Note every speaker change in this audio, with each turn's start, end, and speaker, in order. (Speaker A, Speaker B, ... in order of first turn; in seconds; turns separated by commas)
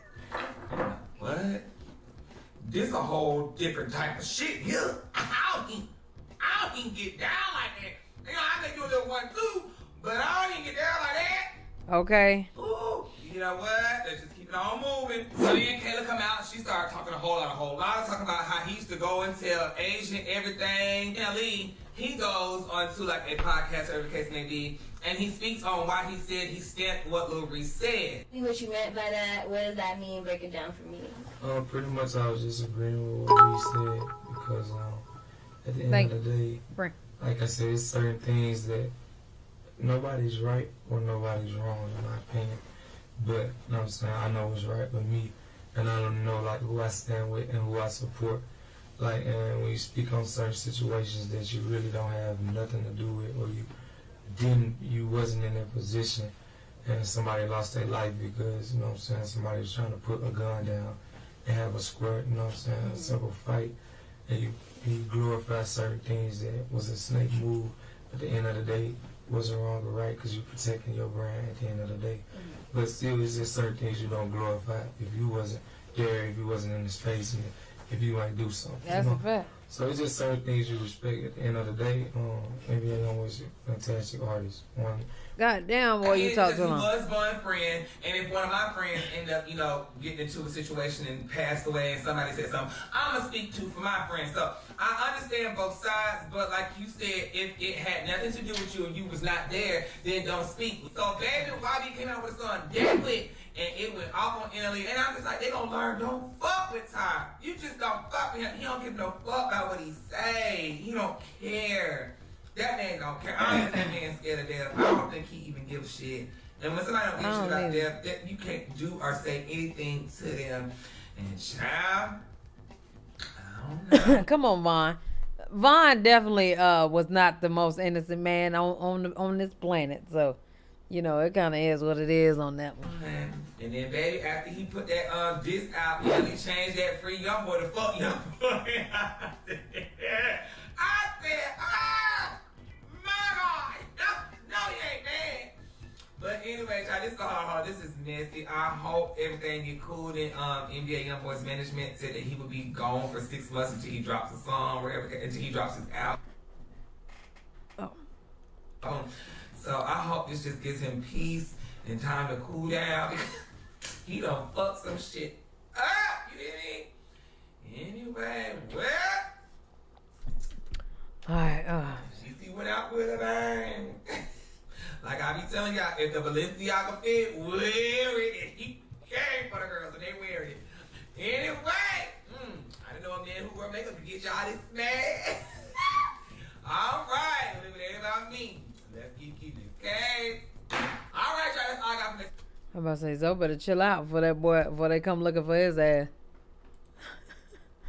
Speaker A: 0.7-1.7, Speaker A: 2.6-5.9, Speaker A: 6.4-11.5, Speaker B: 11.9-12.5, Speaker A: 12.5-28.2, Speaker C: 28.3-31.2, Speaker D: 31.4-35.0, Speaker D: 35.6-36.6, Speaker B: 35.9-36.1, Speaker D: 37.2-38.9, Speaker D: 39.8-42.6, Speaker D: 43.2-48.5, Speaker D: 49.0-53.7, Speaker D: 54.3-56.3, Speaker D: 56.8-63.8, Speaker D: 64.3-85.1, Speaker B: 78.8-79.5, Speaker B: 85.4-86.9, Speaker A: 86.0-122.2, Speaker B: 117.2-117.9, Speaker A: 123.4-124.2, Speaker B: 123.9-125.0, Speaker B: 125.5-130.4, Speaker B: 130.9-132.9, Speaker A: 132.8-145.5, Speaker A: 146.2-156.2, Speaker A: 158.8-163.3, Speaker A: 164.1-166.9, Speaker A: 167.6-169.3, Speaker B: 171.3-172.1, Speaker A: 172.1-174.2, Speaker A: 175.0-180.6, Speaker A: 181.2-186.1, Speaker A: 186.6-190.5, Speaker A: 191.1-192.3, Speaker B: 192.7-196.1